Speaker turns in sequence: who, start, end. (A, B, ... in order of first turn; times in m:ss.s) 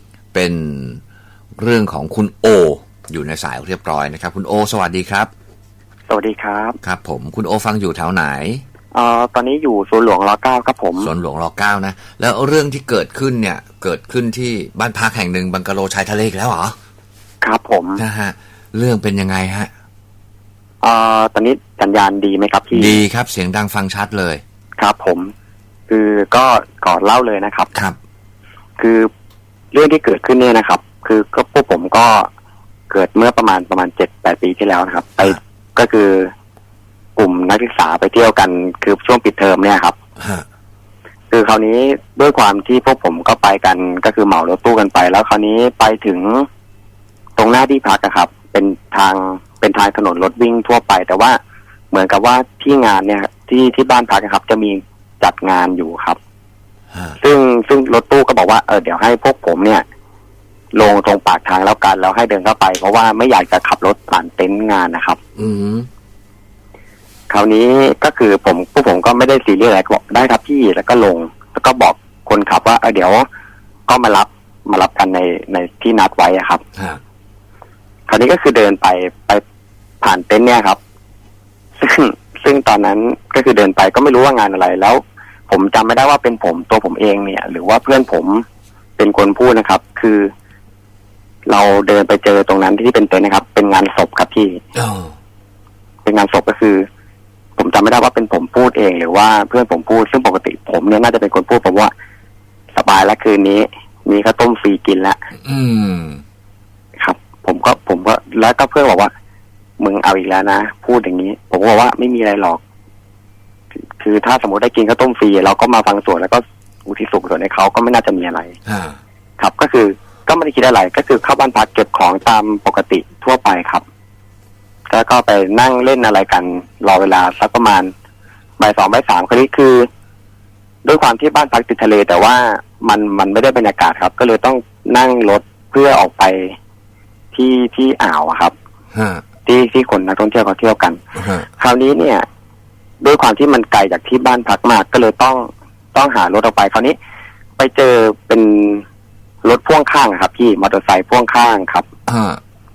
0:00.3-0:01.0 A
0:01.6-0:05.3 A
0:06.1-0:06.8 B
0:06.8-0:08.6 A
0:08.9-0:11.1 B
0:11.0-0:16.8 A
0:17.4-0:18.0 B
0:18.0-0:19.7 A
0:20.8-0:23.0 B
0:22.7-0:24.4 A
0:24.8-0:25.3 B
0:25.9-0:27.7 B
0:28.8-0:29.1 B
0:29.7-0:32.3 B
0:32.9-0:36.3 B
0:37.2-0:39.9 B
0:40.2-0:40.4 A
0:41.3-0:46.5 B
0:47.4-0:51.4 B
0:51.9-0:56.2 B
0:57.2-0:59.8 B
1:00.7-1:05.2 B
1:05.4-1:05.9 A
1:07.3-1:13.2 B
1:13.9-1:16.6 B
1:18.1-1:19.4 B
1:20.0-1:20.8 B
1:21.8-1:28.4 B
1:29.0-1:30.3 B
1:31.5-1:34.6 B
1:34.7-1:35.1 A
1:36.0-1:36.8 B
1:37.6-1:41.9 B
1:42.7-1:45.2 B
1:45.4-1:46.2 A
1:47.0-1:49.1 B
1:49.8-1:52.6 B
1:54.0-1:58.5 B
1:58.7-1:59.0 A
1:59.4-2:03.8 B
2:04.9-2:07.9 B
2:08.6-2:09.9 B
2:10.8-2:16.6 B
2:17.3-2:18.5 B
2:18.9-2:19.2 A
2:19.4-2:21.0 B
2:21.1-2:21.5 A
2:21.6-2:22.2 B
2:23.0-2:27.0 B
2:27.6-2:28.8 B
2:29.4-2:31.8 B
2:32.1-2:32.4 A